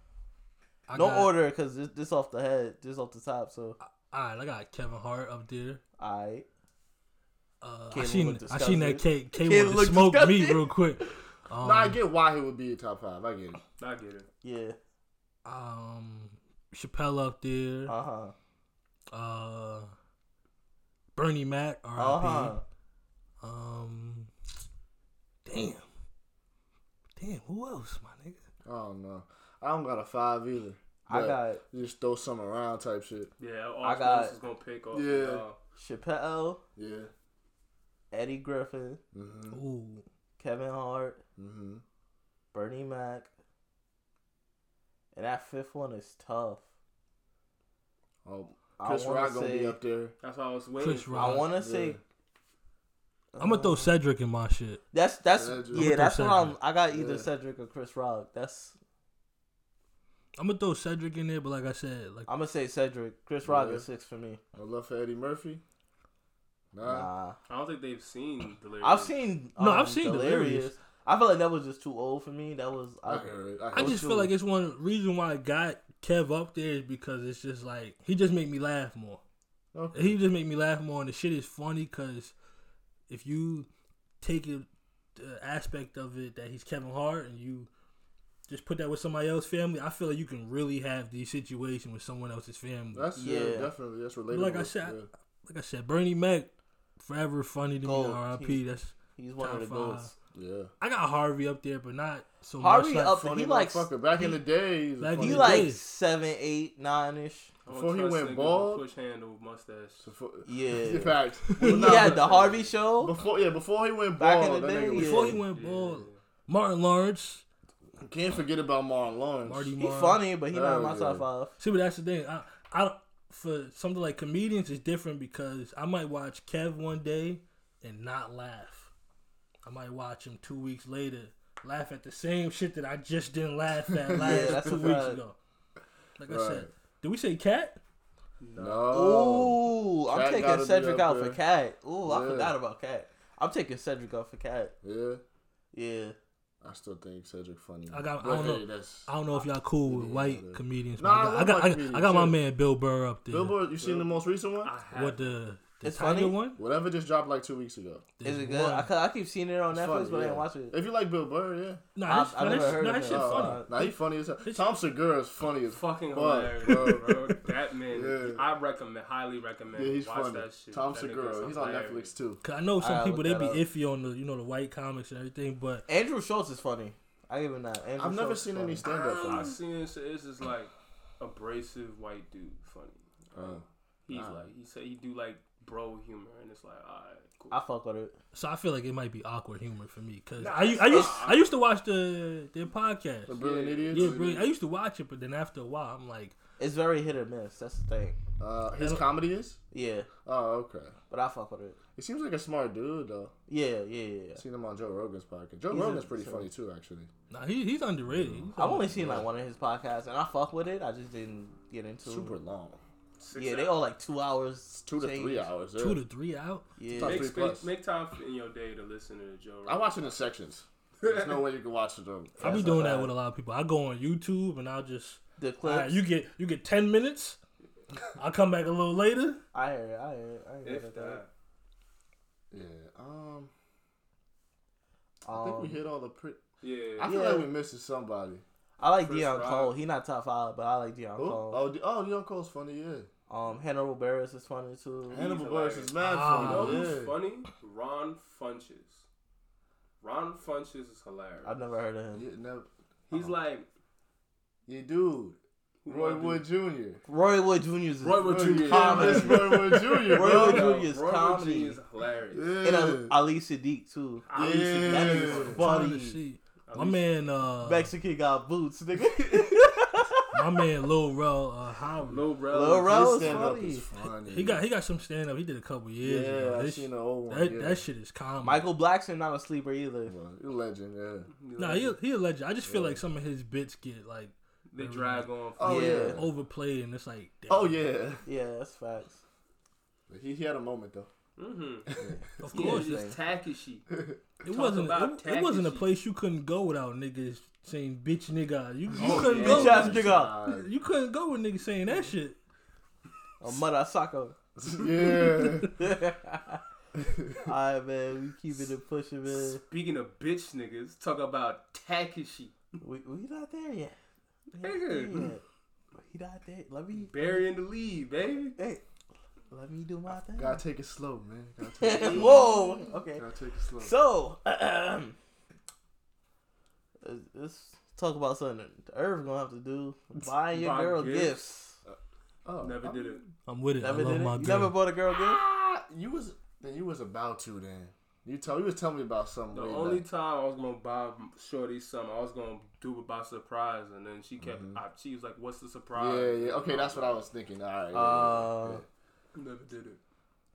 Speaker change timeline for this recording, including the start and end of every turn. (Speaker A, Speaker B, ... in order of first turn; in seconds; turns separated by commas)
Speaker A: 0.9-1.3, Speaker B: 0.9-3.8, Speaker A: 3.8-5.8, Speaker B: 6.0-6.5, Speaker A: 7.6-12.0, Speaker B: 7.9-10.7, Speaker C: 11.6-13.6, Speaker D: 13.8-14.2, Speaker B: 14.4-14.8, Speaker A: 15.4-17.9, Speaker B: 17.9-18.3, Speaker A: 19.1-19.9, Speaker A: 21.1-22.5, Speaker B: 22.0-22.6, Speaker A: 23.4-24.3, Speaker A: 25.4-25.9, Speaker A: 27.2-28.4, Speaker C: 28.6-33.3, Speaker B: 31.1-31.6, Speaker D: 33.4-35.6, Speaker B: 33.8-34.4, Speaker C: 34.9-35.4, Speaker B: 35.8-36.6, Speaker C: 36.8-37.1, Speaker B: 38.1-39.0, Speaker C: 39.1-39.6, Speaker A: 39.5-40.0, Speaker B: 40.4-41.2, Speaker C: 41.4-41.8, Speaker B: 42.5-43.3, Speaker B: 45.1-46.6, Speaker C: 48.2-50.1, Speaker B: 48.8-49.8, Speaker D: 50.2-51.5, Speaker A: 50.8-51.5, Speaker B: 51.1-52.0, Speaker C: 51.6-52.0, Speaker B: 53.4-54.0, Speaker A: 53.4-54.8, Speaker B: 54.9-58.8, Speaker C: 55.4-55.9, Speaker A: 55.7-56.6, Speaker C: 56.9-57.3, Speaker A: 60.4-62.3, Speaker B: 62.3-64.4, Speaker C: 63.4-63.9, Speaker C: 64.5-65.6, Speaker C: 66.7-67.1, Speaker B: 66.8-67.4, Speaker D: 67.5-69.2, Speaker B: 68.8-74.1, Speaker A: 69.6-70.7, Speaker C: 73.0-74.3, Speaker A: 73.7-79.2, Speaker C: 79.7-80.2, Speaker A: 79.9-82.3, Speaker A: 83.1-83.7, Speaker A: 84.2-87.7, Speaker A: 88.5-93.1, Speaker C: 92.9-95.1, Speaker B: 93.2-93.7, Speaker A: 94.3-100.1, Speaker B: 97.8-98.6, Speaker B: 99.2-100.1, Speaker C: 100.3-100.7, Speaker A: 100.8-103.2, Speaker B: 102.6-104.0, Speaker C: 103.2-105.7, Speaker A: 105.0-105.8, Speaker B: 105.2-107.5, Speaker D: 107.7-110.1, Speaker C: 107.7-108.8, Speaker C: 110.0-115.4, Speaker B: 110.5-113.2, Speaker A: 111.5-112.0, Speaker D: 111.8-112.7, Speaker B: 114.2-115.4, Speaker A: 114.9-117.4, Speaker D: 115.5-116.2, Speaker C: 118.0-119.7, Speaker A: 119.5-120.2, Speaker B: 119.8-121.6, Speaker C: 120.5-121.2, Speaker A: 121.6-128.9, Speaker A: 129.7-135.4, Speaker C: 133.9-135.0, Speaker B: 134.2-135.2, Speaker A: 136.2-137.8, Speaker C: 136.3-136.7, Speaker D: 138.4-139.2, Speaker C: 138.6-141.4, Speaker B: 138.9-144.7, Speaker C: 142.0-142.5, Speaker C: 144.8-145.2, Speaker B: 145.7-146.2, Speaker C: 146.6-149.1, Speaker A: 147.9-153.6, Speaker C: 149.8-152.4, Speaker C: 153.3-154.7, Speaker D: 153.8-155.4, Speaker A: 154.9-156.6, Speaker B: 155.8-156.4, Speaker C: 156.6-158.1, Speaker A: 158.2-158.9, Speaker B: 158.2-160.8, Speaker C: 159.7-161.8, Speaker A: 162.0-163.9, Speaker B: 162.1-163.8, Speaker C: 162.4-168.4, Speaker D: 165.7-172.1, Speaker C: 169.7-172.4, Speaker A: 172.4-175.8, Speaker B: 172.8-173.6, Speaker B: 175.9-178.9, Speaker C: 178.0-179.6, Speaker D: 178.9-187.6, Speaker C: 183.3-184.5, Speaker B: 187.5-188.2, Speaker A: 188.3-193.4, Speaker D: 190.4-191.5, Speaker B: 190.9-191.2, Speaker C: 193.2-194.5, Speaker D: 193.3-194.2, Speaker A: 193.9-196.4, Speaker B: 196.6-198.2, Speaker C: 198.4-199.6, Speaker A: 198.8-199.0, Speaker B: 199.7-200.1, Speaker C: 200.2-200.9, Speaker B: 201.1-201.8, Speaker C: 202.0-203.3, Speaker B: 203.5-204.4, Speaker C: 204.4-207.1, Speaker B: 205.7-206.5, Speaker A: 207.3-209.0, Speaker C: 208.1-209.3, Speaker B: 208.6-212.4, Speaker C: 212.0-212.8, Speaker D: 213.2-213.8, Speaker B: 213.4-215.5, Speaker C: 214.8-216.0, Speaker A: 215.8-216.7, Speaker B: 216.8-217.4, Speaker C: 216.9-217.7, Speaker D: 217.0-220.2, Speaker C: 219.7-222.8, Speaker D: 221.0-221.5, Speaker B: 222.4-223.1, Speaker A: 222.4-227.4, Speaker B: 225.4-226.0, Speaker A: 228.2-229.4, Speaker B: 229.5-231.2, Speaker D: 230.6-231.3, Speaker C: 232.5-233.5, Speaker B: 235.2-235.8, Speaker C: 235.3-236.4, Speaker D: 236.6-237.1, Speaker C: 237.0-238.4, Speaker B: 237.0-237.5, Speaker B: 238.8-241.6, Speaker D: 239.0-239.7, Speaker C: 241.2-243.1, Speaker B: 243.3-245.2, Speaker C: 245.1-247.2, Speaker D: 245.1-249.0, Speaker A: 246.0-246.9, Speaker D: 250.0-251.6, Speaker B: 251.4-252.2, Speaker C: 252.1-253.3, Speaker D: 253.1-253.7, Speaker C: 254.7-257.0, Speaker D: 255.8-256.4, Speaker B: 257.1-261.8, Speaker D: 258.0-262.5, Speaker C: 258.2-260.8, Speaker C: 262.3-263.1, Speaker B: 262.6-266.2, Speaker D: 264.3-265.6, Speaker C: 264.3-265.6, Speaker A: 265.5-267.9, Speaker D: 266.7-267.1, Speaker B: 267.6-270.3, Speaker A: 270.3-272.2, Speaker D: 272.1-273.6, Speaker B: 272.5-273.9, Speaker C: 272.8-274.6, Speaker A: 274.3-278.7, Speaker C: 276.0-277.8, Speaker B: 278.4-280.1, Speaker C: 280.1-281.3, Speaker D: 281.3-282.0, Speaker A: 281.6-287.9, Speaker C: 282.6-283.0, Speaker D: 284.7-286.1, Speaker C: 285.6-286.3, Speaker B: 285.6-286.2, Speaker C: 287.5-288.2, Speaker B: 288.2-289.2, Speaker C: 290.1-291.1, Speaker D: 291.4-291.9, Speaker C: 291.9-292.2, Speaker A: 292.4-293.1, Speaker D: 292.5-293.9, Speaker B: 292.5-293.2, Speaker C: 293.9-294.2, Speaker A: 294.4-302.4, Speaker D: 294.5-295.9, Speaker C: 298.9-300.7, Speaker D: 299.0-300.0, Speaker B: 299.3-300.4, Speaker B: 303.4-304.4, Speaker C: 304.6-305.7, Speaker B: 305.6-306.6, Speaker C: 307.0-307.4, Speaker B: 307.4-309.6, Speaker D: 309.3-312.6, Speaker B: 312.8-313.9, Speaker B: 314.5-315.4, Speaker D: 314.6-315.3, Speaker B: 316.0-317.4, Speaker D: 317.0-318.6, Speaker B: 318.6-318.8, Speaker B: 319.5-320.6, Speaker C: 320.4-323.9, Speaker B: 321.8-323.2, Speaker D: 321.9-322.8, Speaker B: 323.8-325.1, Speaker B: 327.0-331.8, Speaker D: 330.5-331.4, Speaker C: 331.9-333.3, Speaker D: 332.6-333.2, Speaker A: 333.5-334.8, Speaker B: 333.8-335.4, Speaker C: 335.1-340.0, Speaker D: 339.5-347.2, Speaker C: 344.4-344.8, Speaker C: 345.9-348.8, Speaker B: 347.9-348.8, Speaker D: 349.4-350.0